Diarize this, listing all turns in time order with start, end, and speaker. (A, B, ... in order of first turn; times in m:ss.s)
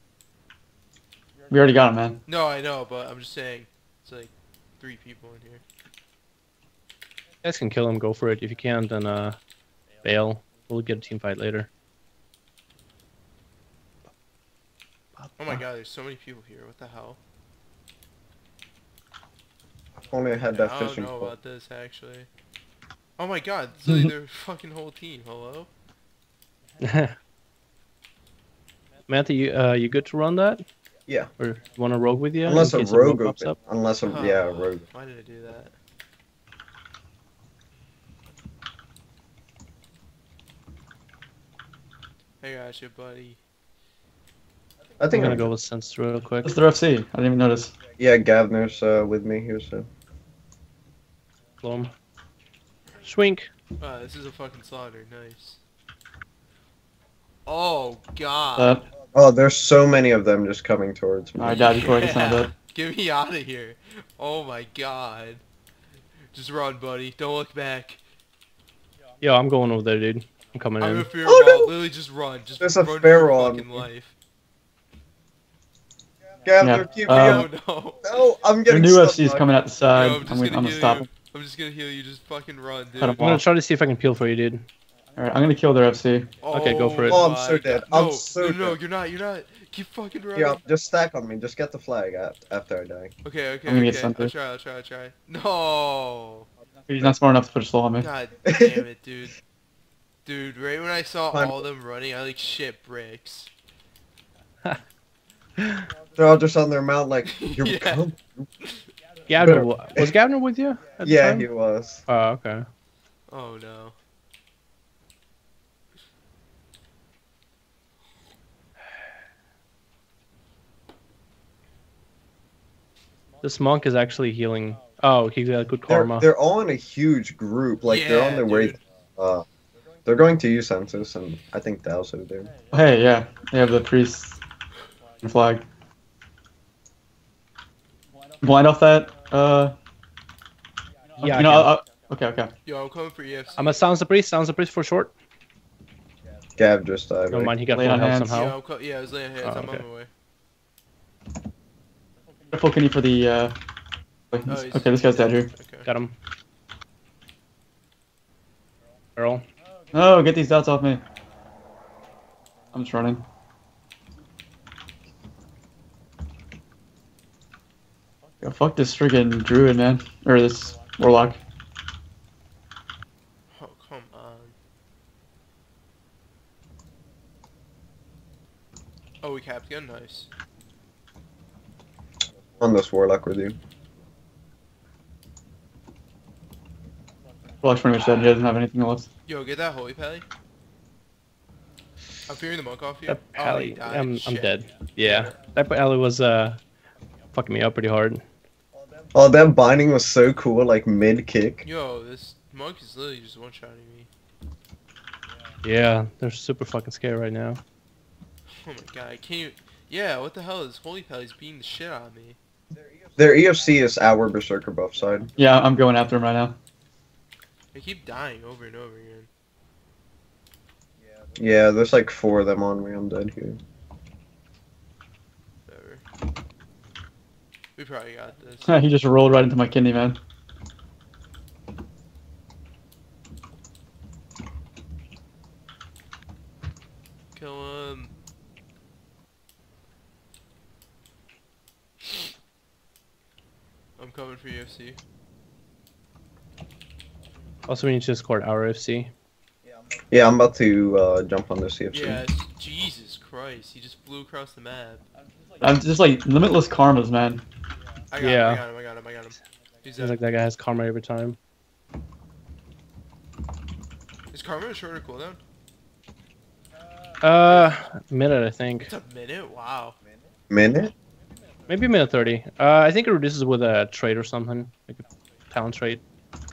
0:01.5-0:02.2 A
0:02.3-0:05.6 B
0:07.4-0:09.4 C
0:10.0-0:11.7 C
0:15.2-0:15.6 C
0:15.4-0:17.2 B
0:20.1-0:21.4 D
0:20.5-0:22.3 B
0:23.2-0:25.7 B
0:26.8-0:27.2 C
0:29.1-0:30.6 C
0:31.4-0:33.5 C
0:32.4-0:34.8 D
0:34.0-0:35.8 B
0:42.4-0:43.4 B
0:45.0-0:45.5 D
0:45.1-0:46.6 C
0:46.4-0:47.7 A
0:48.0-0:49.9 D
0:51.6-0:51.9 C
0:53.0-0:53.5 C
0:53.8-0:55.6 B
0:57.5-0:58.8 B
0:58.6-0:58.8 A
0:59.1-1:01.7 D
1:01.4-1:02.5 A
1:01.5-1:05.4 B
1:06.3-1:08.0 B
1:09.2-1:11.1 C
1:10.8-1:14.1 B
1:11.2-1:11.7 D
1:12.6-1:13.9 D
1:16.4-1:17.5 D
1:16.6-1:17.5 A
1:17.1-1:18.0 B
1:18.0-1:19.5 D
1:18.7-1:21.1 A
1:19.9-1:23.2 B
1:23.0-1:23.4 A
1:23.2-1:24.6 C
1:25.2-1:26.4 A
1:26.4-1:30.6 B
1:26.5-1:27.2 C
1:27.0-1:28.8 D
1:30.4-1:33.1 D
1:33.2-1:36.5 B
1:33.7-1:34.3 A
1:36.9-1:38.1 A
1:38.0-1:39.4 B
1:38.5-1:38.8 D
1:40.2-1:43.5 B
1:41.3-1:41.6 D
1:45.6-1:45.8 C
1:46.2-1:48.5 D
1:47.3-1:48.0 B
1:48.6-1:48.9 B
1:49.3-1:51.5 C
1:49.4-1:50.1 D
1:51.0-1:52.0 D
1:52.1-1:52.6 C
1:53.3-1:54.0 B
2:03.4-2:06.3 C
2:05.9-2:09.5 D
2:07.9-2:08.8 B
2:10.1-2:12.5 D
2:12.7-2:14.4 A
2:15.2-2:15.6 A
2:18.4-2:19.8 A
2:21.2-2:21.7 C
2:21.2-2:22.5 A
2:22.7-2:23.8 B
2:23.6-2:25.1 C
2:26.6-2:27.5 D
2:27.3-2:28.6 C
2:27.7-2:28.4 A
2:28.3-2:30.1 B
2:29.4-2:29.8 C
2:32.5-2:33.5 A
2:34.3-2:35.5 A
2:34.5-2:35.9 B
2:35.8-2:36.2 C
2:39.2-2:39.4 C
2:39.9-2:41.0 A
2:42.7-2:43.2 A
2:48.4-2:51.4 A
2:53.5-2:54.6 B
2:59.2-3:00.3 B
3:02.6-3:03.6 D
3:07.6-3:09.1 A
3:09.3-3:10.3 B
3:12.3-3:15.4 B
3:13.1-3:16.6 C
3:17.3-3:18.2 C
3:19.1-3:21.7 D
3:21.6-3:24.1 B
3:25.6-3:27.6 C
3:28.5-3:32.4 B
3:33.2-3:35.3 D
3:35.4-3:36.6 A
3:37.7-3:39.3 B
3:41.4-3:43.6 D
3:45.7-3:46.0 B
3:47.8-3:48.8 B
3:48.7-3:50.2 A
3:57.4-3:58.1 B
4:04.0-4:05.0 B
4:07.7-4:09.1 C
4:10.1-4:12.2 D
4:11.9-4:15.0 B
4:15.6-4:17.4 A
4:18.1-4:20.2 B
4:18.2-4:18.6 C
4:20.0-4:21.4 C
4:24.3-4:25.4 B
4:27.2-4:28.9 C
4:28.8-4:30.0 B
4:30.5-4:30.9 D
4:31.7-4:36.0 C